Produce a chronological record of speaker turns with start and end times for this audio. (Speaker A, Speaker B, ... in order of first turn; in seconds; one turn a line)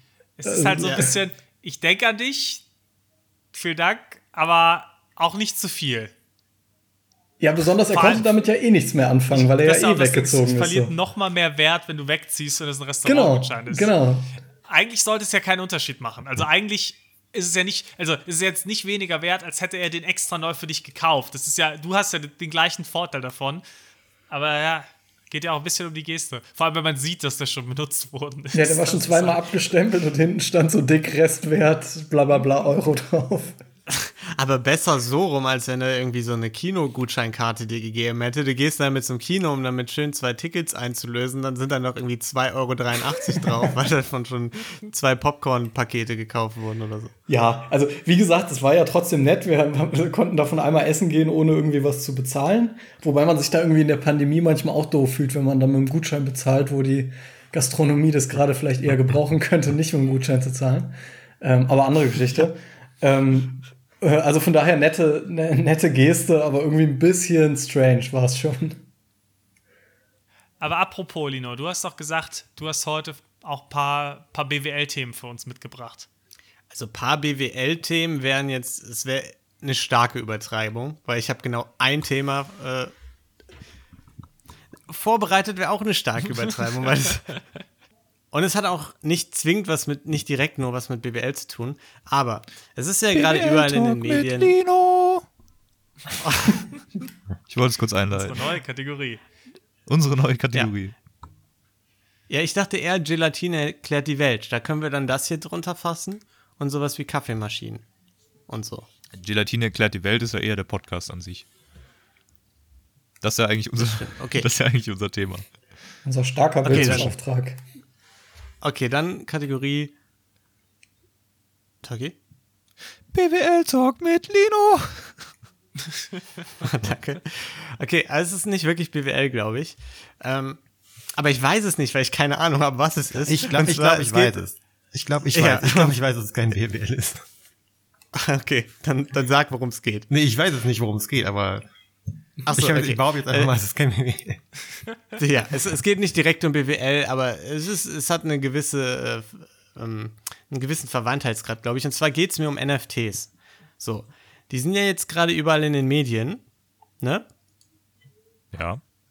Speaker A: 0.4-2.6
Speaker B: 0.4-1.1
Speaker A: 3.5-6.1
Speaker B: 7.4-10.9
Speaker A: 7.9-8.3
Speaker A: 9.3-13.9
Speaker B: 13.0-14.3
Speaker A: 14.7-23.6
Speaker A: 24.3-29.4
Speaker B: 28.5-33.6
Speaker C: 34.3-47.1
Speaker B: 47.3-68.8
Speaker A: 70.6-76.1
Speaker C: 76.7-82.9
Speaker C: 84.9-87.4
Speaker C: 88.3-94.5
Speaker D: 93.1-95.2
Speaker C: 96.2-96.6
Speaker D: 97.5-98.4
Speaker A: 98.1-99.2
Speaker D: 99.9-100.9
Speaker C: 102.3-107.8
Speaker C: 108.5-108.9
Speaker D: 109.1-111.4
Speaker D: 113.2-115.5
Speaker C: 113.8-114.5
Speaker B: 116.0-117.6
Speaker C: 116.6-117.1
Speaker D: 116.7-117.1
Speaker C: 118.6-119.9
Speaker C: 121.8-122.2
Speaker D: 123.1-125.2
Speaker C: 126.6-130.6
Speaker C: 131.2-134.4
Speaker E: 133.2-137.2
Speaker C: 135.3-135.9
Speaker C: 138.1-140.1
Speaker E: 140.1-141.7
Speaker E: 142.4-144.4
Speaker C: 142.4-143.5
Speaker C: 145.2-156.4
Speaker D: 158.5-158.8